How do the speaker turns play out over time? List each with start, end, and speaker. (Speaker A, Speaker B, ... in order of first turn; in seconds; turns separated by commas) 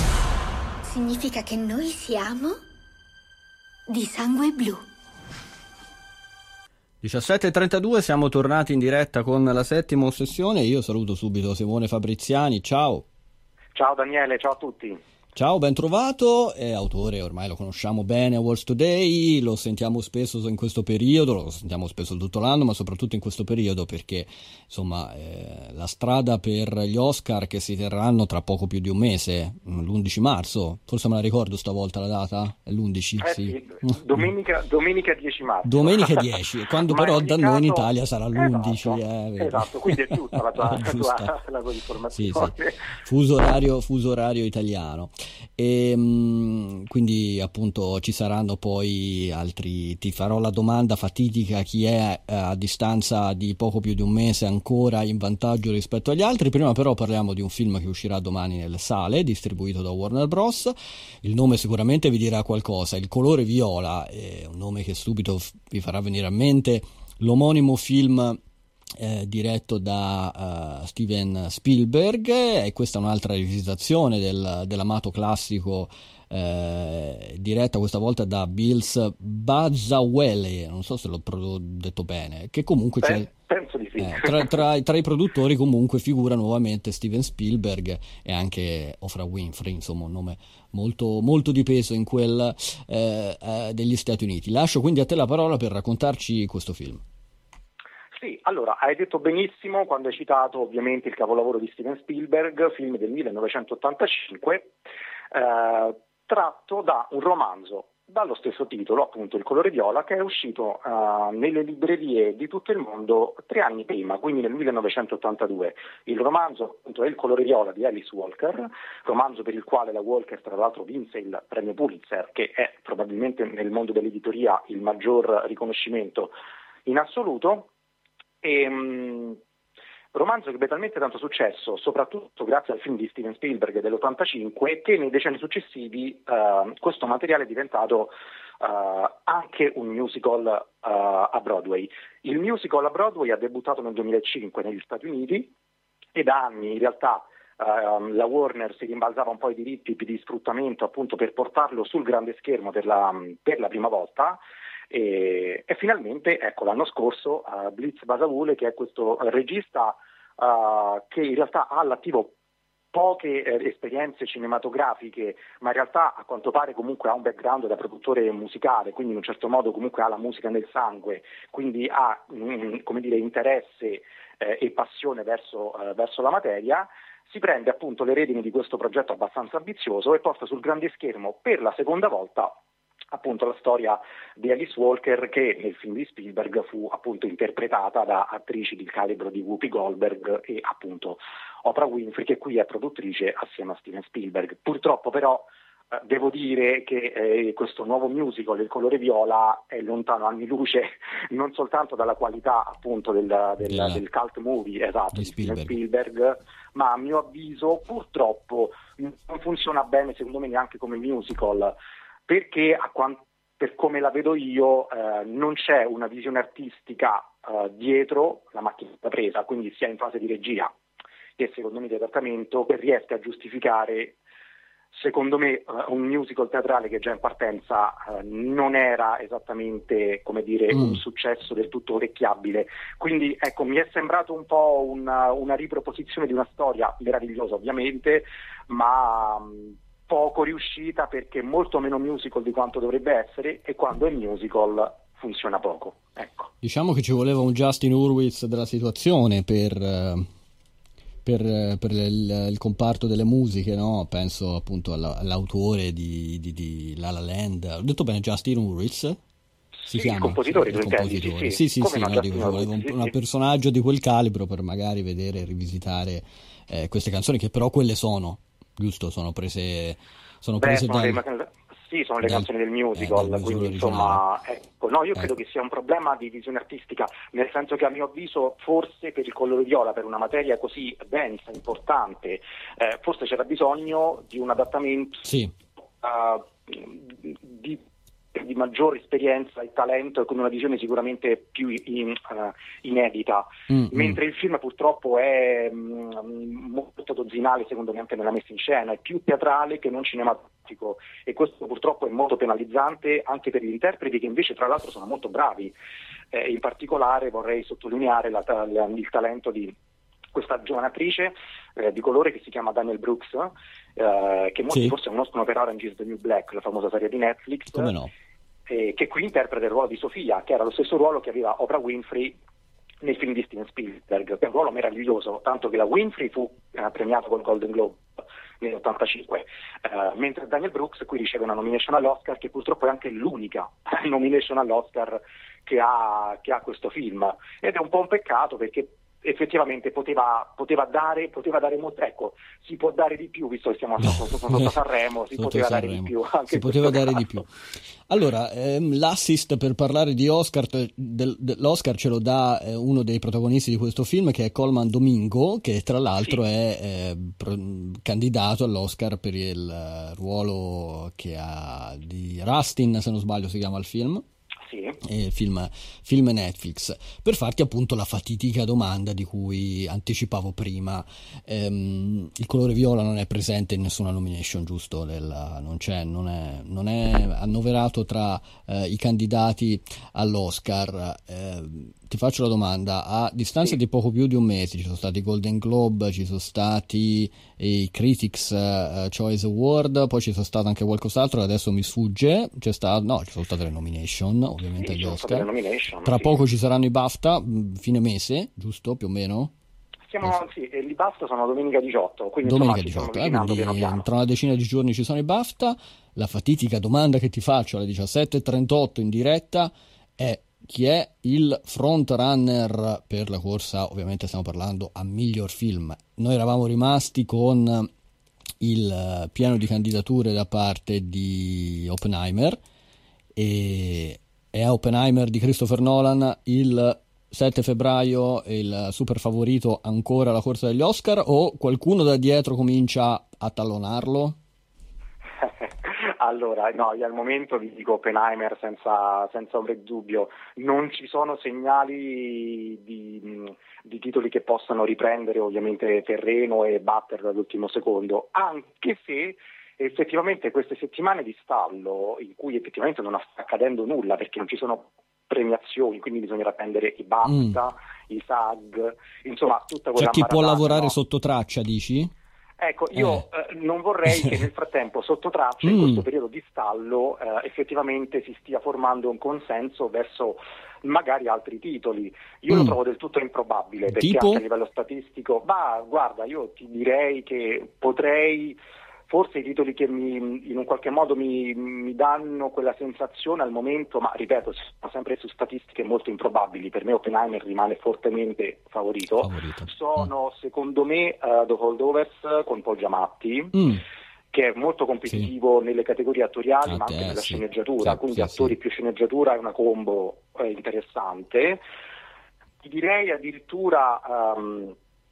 Speaker A: 0.8-2.6, Speaker A: 3.9-4.8, Speaker B: 7.0-13.1, Speaker C: 13.7-15.0, Speaker B: 15.3-34.3, Speaker C: 33.2-42.9, Speaker B: 35.6-41.3, Speaker B: 42.1-68.4, Speaker B: 69.0-83.3, Speaker C: 83.0-84.6, Speaker B: 84.0-97.0, Speaker C: 98.1-104.8, Speaker C: 105.3-126.3, Speaker C: 126.8-127.7, Speaker C: 128.4-129.4, Speaker C: 130.1-145.5, Speaker C: 146.1-162.3, Speaker C: 162.9-182.6, Speaker C: 183.1-211.7, Speaker B: 203.6-204.0, Speaker B: 205.1-205.8, Speaker C: 212.3-220.7, Speaker C: 221.4-224.2, Speaker C: 224.9-246.5, Speaker B: 230.7-231.0, Speaker B: 246.6-250.3, Speaker B: 251.2-259.2, Speaker C: 259.8-263.1, Speaker B: 259.9-271.2, Speaker C: 270.6-285.3, Speaker B: 272.2-274.2, Speaker B: 285.2-285.5, Speaker C: 286.0-287.8, Speaker C: 288.3-305.7, Speaker B: 293.7-294.2, Speaker C: 306.3-309.7, Speaker C: 310.3-317.9, Speaker B: 317.7-318.1, Speaker C: 318.7-322.4, Speaker C: 323.0-347.4, Speaker B: 344.0-344.7, Speaker B: 345.3-347.5, Speaker B: 348.1-364.2, Speaker C: 364.7-365.0, Speaker B: 365.0-395.5, Speaker C: 394.8-396.4, Speaker B: 396.0-399.5, Speaker C: 400.1-404.1, Speaker B: 402.4-417.9, Speaker B: 418.6-422.6, Speaker B: 423.4-434.4, Speaker C: 435.4-461.0, Speaker B: 457.3-457.6, Speaker B: 459.9-462.1, Speaker C: 462.6-478.6, Speaker B: 462.9-463.2, Speaker B: 465.6-466.0, Speaker B: 473.9-474.4, Speaker C: 479.1-493.8, Speaker B: 489.2-490.1, Speaker B: 493.5-493.8, Speaker C: 494.3-501.6, Speaker B: 496.6-498.5, Speaker C: 502.6-504.8